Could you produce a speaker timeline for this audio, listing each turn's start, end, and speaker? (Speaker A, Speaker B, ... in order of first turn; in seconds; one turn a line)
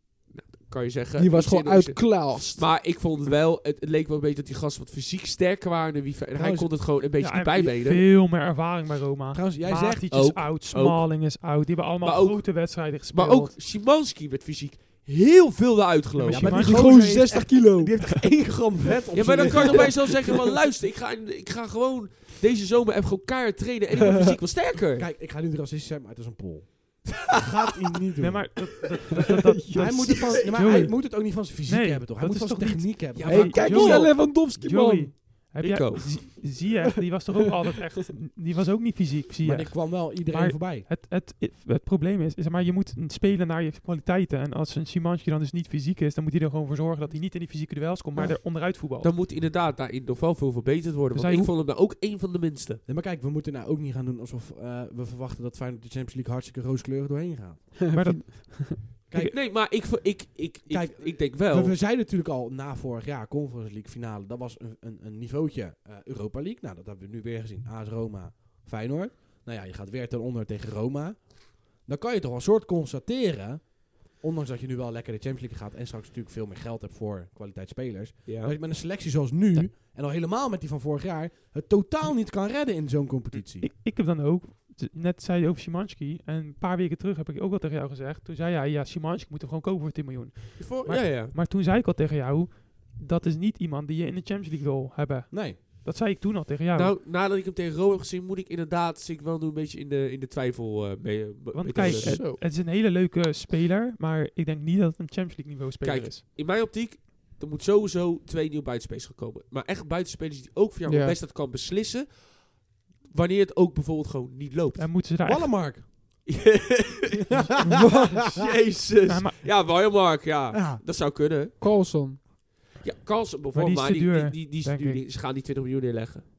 Speaker A: 0.3-8.1
Speaker B: 1.2-2.8
Speaker C: 6.3-6.7
Speaker D: 7.2-13.6
Speaker C: 9.3-10.1
Speaker A: 10.1-11.0
Speaker A: 12.0-16.5
Speaker D: 16.2-17.1
Speaker C: 16.3-20.3
Speaker B: 16.4-18.0
Speaker A: 19.1-25.1
Speaker B: 19.2-20.4
Speaker B: 24.0-24.4
Speaker C: 24.7-28.5
Speaker D: 28.2-49.1
Speaker B: 29.4-30.4
Speaker C: 29.7-33.6
Speaker A: 33.1-34.2
Speaker B: 33.2-35.2
Speaker A: 35.6-36.0
Speaker C: 39.4-40.9
Speaker A: 48.5-52.8
Speaker D: 51.1-51.5
Speaker C: 52.9-57.9
Speaker B: 57.9-58.5
Speaker D: 57.9-59.4
Speaker C: 59.1-59.4
Speaker A: 59.3-61.7
Speaker C: 60.7-83.7
Speaker A: 78.2-78.5
Speaker D: 83.6-96.9
Speaker A: 90.6-91.3
Speaker C: 95.3-95.6
Speaker A: 96.7-102.2
Speaker D: 101.5-106.2
Speaker B: 101.8-102.4
Speaker A: 105.8-114.9
Speaker B: 110.8-111.2
Speaker D: 114.8-115.5
Speaker C: 115.2-116.2
Speaker A: 116.2-117.3
Speaker C: 117.3-117.9
Speaker B: 117.7-118.3
Speaker A: 118.1-121.6
Speaker D: 119.1-119.4
Speaker C: 120.5-120.8
Speaker B: 121.6-122.2
Speaker A: 122.8-126.2
Speaker D: 123.5-125.0